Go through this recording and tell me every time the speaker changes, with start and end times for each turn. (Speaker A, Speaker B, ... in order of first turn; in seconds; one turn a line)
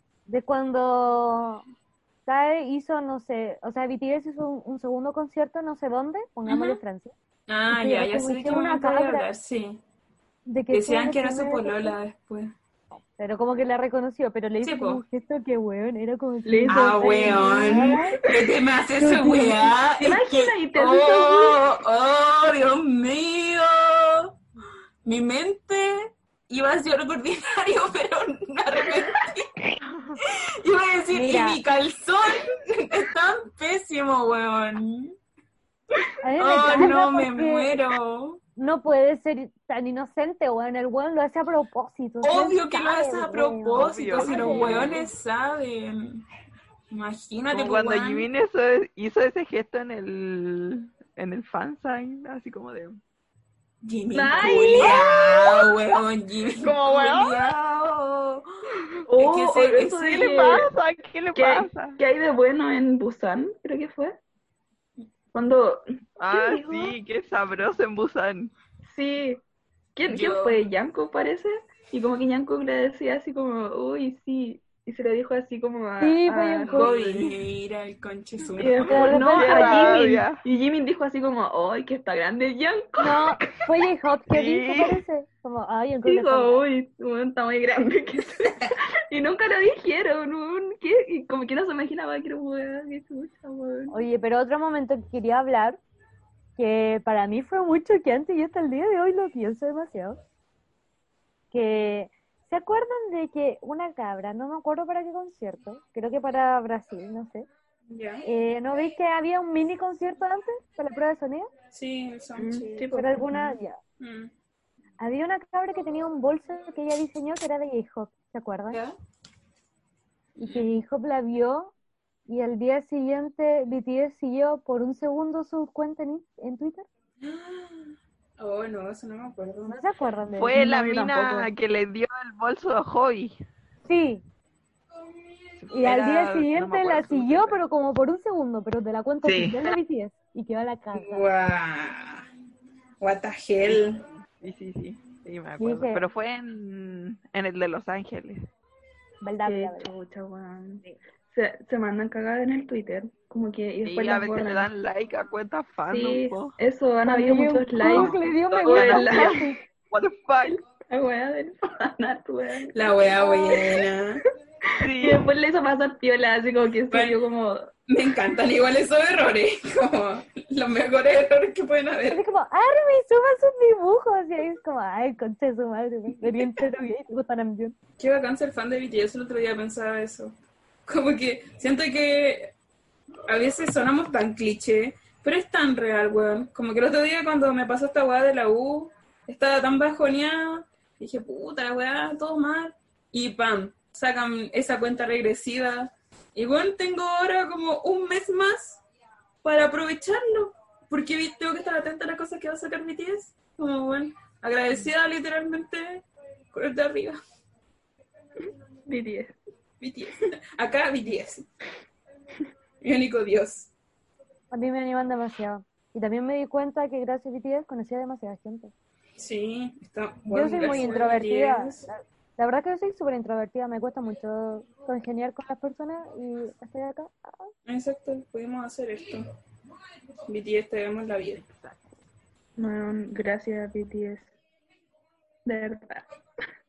Speaker A: 0.3-1.6
Speaker A: 2.3-7.1
Speaker B: 6.5-6.8
Speaker B: 7.5-9.8
Speaker A: 7.7-9.3
Speaker A: 10.5-11.9
Speaker B: 10.7-12.5
Speaker A: 13.2-18.2
Speaker B: 14.6-15.0
Speaker C: 16.4-21.6
Speaker B: 16.7-24.4
Speaker B: 25.1-35.1
Speaker A: 31.1-31.6
Speaker A: 36.2-37.7
Speaker B: 36.4-38.4
Speaker A: 38.6-45.0
Speaker B: 42.2-46.2
Speaker D: 43.8-45.0
Speaker B: 46.9-48.3
Speaker D: 47.5-53.0
Speaker B: 53.8-58.5
Speaker C: 54.1-55.6
Speaker D: 54.4-55.0
Speaker D: 56.6-57.5
Speaker B: 59.1-60.4
Speaker C: 59.2-60.7
Speaker D: 60.1-62.0
Speaker C: 61.4-64.2
Speaker C: 65.3-66.9
Speaker D: 66.2-68.5
Speaker C: 68.8-69.4
Speaker C: 70.0-77.4
Speaker B: 70.1-70.6
Speaker A: 76.0-76.9
Speaker B: 76.7-79.2
Speaker D: 77.0-77.3
Speaker C: 78.5-83.3
Speaker A: 78.8-80.0
Speaker D: 79.3-80.4
Speaker A: 83.0-86.7
Speaker D: 84.3-85.0
Speaker C: 86.0-94.0
Speaker A: 93.9-95.8
Speaker A: 96.6-100.2
Speaker A: 101.5-107.5
Speaker B: 107.9-108.2
Speaker A: 108.2-111.5
Speaker B: 111.7-112.9
Speaker C: 112.4-113.5
Speaker A: 113.0-113.8
Speaker B: 114.0-114.3
Speaker A: 115.0-118.8
Speaker A: 120.4-121.7
Speaker A: 122.3-126.9
Speaker B: 127.2-129.8
Speaker A: 129.7-130.6
Speaker D: 130.4-133.4
Speaker C: 130.5-131.5
Speaker A: 133.9-134.2
Speaker D: 135.6-137.6
Speaker A: 135.7-141.3
Speaker D: 139.2-139.6
Speaker B: 140.9-142.3
Speaker B: 143.0-144.0
Speaker D: 144.4-148.4
Speaker A: 145.6-146.0
Speaker A: 149.2-149.9
Speaker C: 149.4-154.7
Speaker D: 153.8-156.6
Speaker C: 155.9-159.5
Speaker A: 157.1-159.6
Speaker D: 157.8-160.6
Speaker C: 160.5-163.9
Speaker B: 162.7-164.2
Speaker D: 164.8-165.3
Speaker C: 164.8-167.7
Speaker B: 166.9-167.2
Speaker B: 167.9-172.2
Speaker A: 172.1-177.8
Speaker B: 178.0-180.3
Speaker B: 180.9-182.5
Speaker B: 183.3-198.8
Speaker B: 199.4-207.2
Speaker C: 208.9-209.3
Speaker B: 209.8-211.5
Speaker B: 212.8-213.7
Speaker A: 214.5-218.7
Speaker B: 219.2-221.8
Speaker A: 220.3-227.5
Speaker B: 227.7-229.2
Speaker B: 230.3-231.4
Speaker D: 231.4-231.8
Speaker C: 232.6-234.3
Speaker C: 235.4-236.1